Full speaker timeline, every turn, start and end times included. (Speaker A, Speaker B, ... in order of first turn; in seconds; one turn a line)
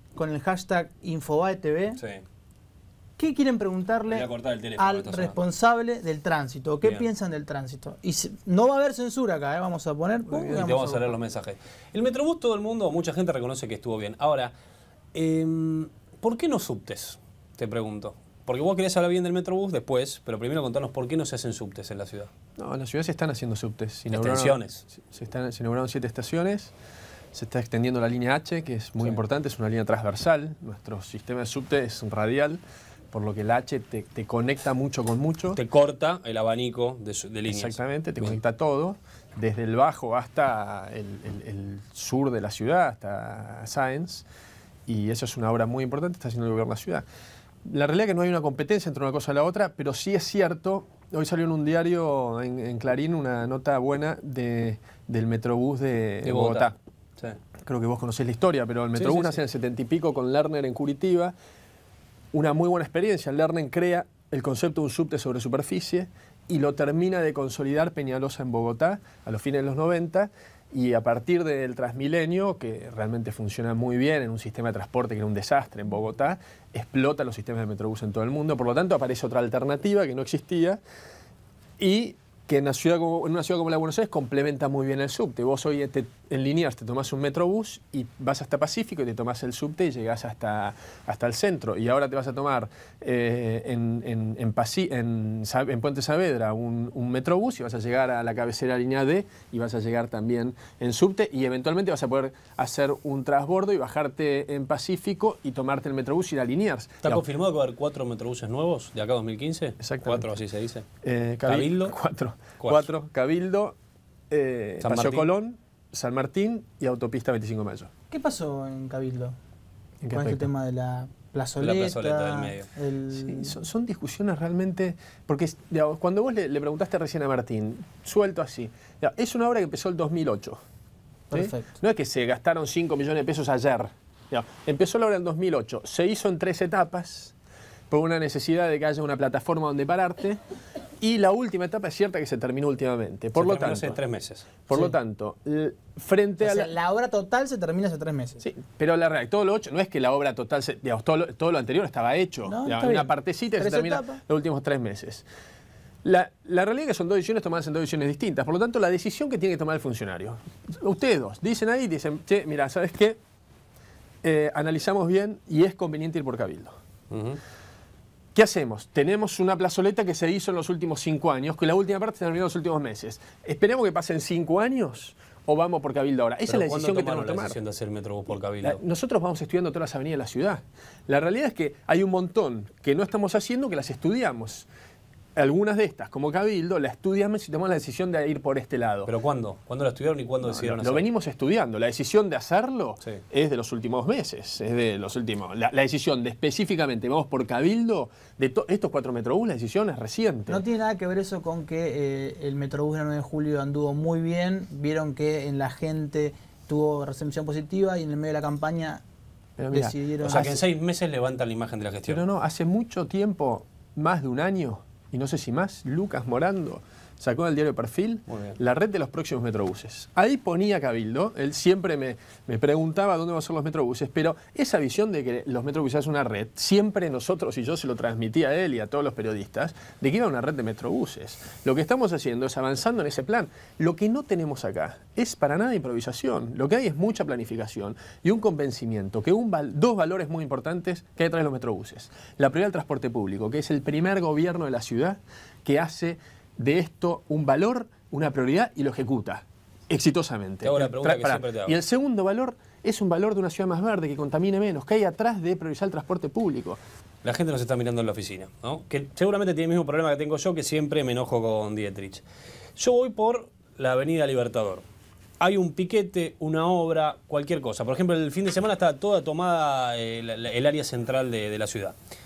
Speaker A: 0.1-2.0
Speaker A: 3.2-4.2
Speaker B: 4.1-5.4
Speaker A: 4.8-11.1
Speaker B: 10.4-14.5
Speaker B: 15.1-22.3
Speaker C: 22.6-26.7
Speaker B: 24.1-24.8
Speaker C: 27.3-32.6
Speaker C: 33.1-35.6
Speaker B: 35.5-38.3
Speaker C: 37.5-44.2
Speaker C: 44.9-47.0
Speaker C: 47.6-56.8
Speaker B: 56.2-56.7
Speaker C: 57.6-61.3
Speaker B: 59.0-59.4
Speaker C: 62.3-80.8
Speaker C: 81.8-107.2
Speaker B: 107.0-110.8
Speaker C: 109.8-110.3
Speaker C: 111.0-113.8
Speaker B: 111.4-111.9
Speaker B: 112.6-112.9
Speaker C: 114.3-117.9
Speaker B: 114.8-115.3
Speaker A: 118.1-119.3
Speaker C: 120.0-120.5
Speaker A: 120.1-123.6
Speaker B: 121.6-122.7
Speaker C: 123.1-130.6
Speaker A: 131.3-131.7
Speaker C: 131.3-137.3
Speaker C: 137.9-140.4
Speaker C: 141.0-144.0
Speaker B: 143.3-144.5
Speaker C: 144.7-146.7
Speaker A: 146.4-148.4
Speaker C: 148.4-155.2
Speaker A: 152.4-154.2
Speaker C: 156.0-163.2
Speaker C: 164.2-166.8
Speaker B: 167.1-167.4
Speaker C: 168.3-177.6
Speaker B: 176.5-178.8
Speaker C: 178.6-184.7
Speaker C: 185.3-189.1
Speaker B: 189.1-191.0
Speaker C: 190.4-200.6
Speaker A: 200.5-209.0
Speaker C: 209.6-210.4
Speaker A: 209.7-210.6
Speaker B: 210.2-212.2
Speaker C: 212.1-256.8
Speaker B: 218.3-218.6
Speaker B: 250.6-251.7
Speaker B: 257.2-262.2
Speaker B: 262.8-264.8
Speaker B: 265.4-271.9